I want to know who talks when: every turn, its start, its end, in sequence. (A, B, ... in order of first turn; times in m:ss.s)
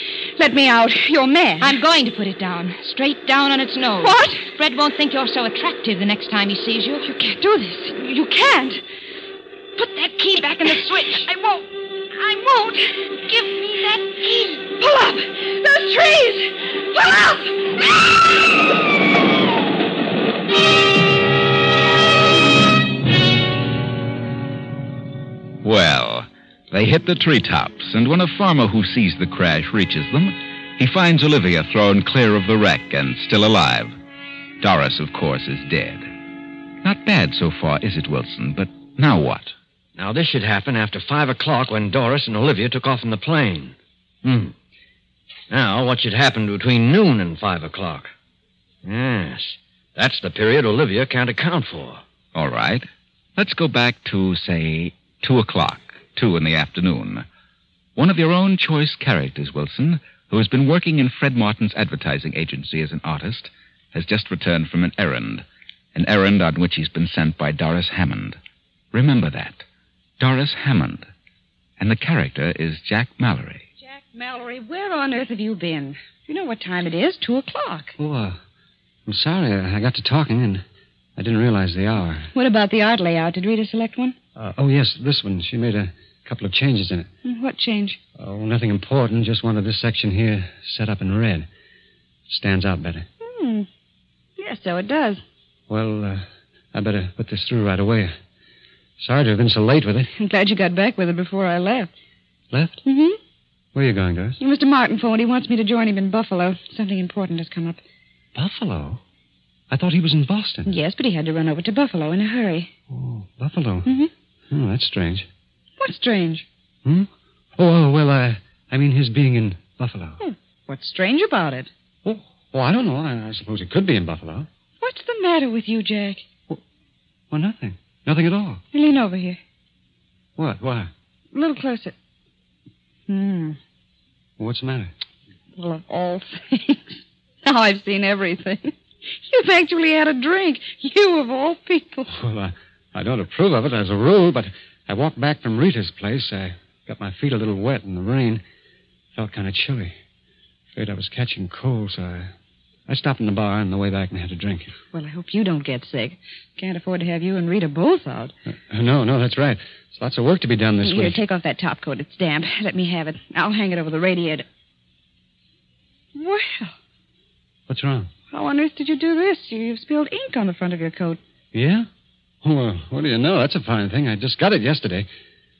0:00.4-0:01.8 A
0:01.6-0:07.1 B
0:04.0-0:04.5 A
0:07.0-0:08.8 A
0:09.8-0:11.3 B
0:10.4-0:13.0 A
0:13.2-0:14.7 B
0:14.5-0:18.2 A
0:25.6-0:33.9 C
0:34.6-0:36.1 C
0:36.8-0:39.5 C
0:40.0-0:44.5 D
0:45.5-0:48.1 D
0:48.8-0:52.0 D
0:52.3-0:57.2 C
0:58.0-1:08.4 C
1:08.9-1:09.6 C
1:10.2-1:11.1 C
1:11.8-1:13.6 C
1:13.9-1:17.9 A
1:18.0-1:18.4 E
1:19.0-1:20.6 E
1:21.2-1:22.3 E
1:22.3-1:24.2 A
1:24.4-1:27.1 E
1:27.2-1:28.0 A
1:28.2-1:31.5 E
1:32.3-1:33.1 E
1:33.2-1:33.7 A
1:34.4-1:35.2 A
1:35.7-1:38.1 E
1:39.0-1:40.1 E
1:40.2-1:41.9 A
1:42.5-1:42.8 E
1:42.8-1:43.2 A
1:43.7-1:44.4 E
1:44.4-1:47.8 A
1:48.3-1:49.0 E
1:49.7-1:50.7 E
1:50.6-1:52.7 A
1:52.9-1:53.9 E
1:53.8-1:54.1 A
1:54.5-1:55.3 E
1:55.8-1:56.4 A
1:56.8-2:00.2 E
2:00.2-2:01.7 A
2:02.0-2:04.5 E
2:04.8-2:06.3 A
2:07.3-2:08.6 E
2:08.7-2:09.4 A
2:10.4-2:10.9 E
2:11.3-2:11.9 A
2:13.1-2:13.6 A
2:14.4-2:14.9 E
2:15.6-2:22.1 A
2:22.1-2:28.4 E
2:29.1-2:29.9 E
2:30.7-2:32.3 E
2:32.9-2:34.8 E
2:34.9-2:38.3 A
2:38.5-2:41.2 E
2:40.8-2:44.4 A
2:46.1-2:46.7 A
2:47.7-2:48.1 E
2:48.3-2:51.2 A
2:51.5-2:51.9 E
2:52.4-2:55.1 E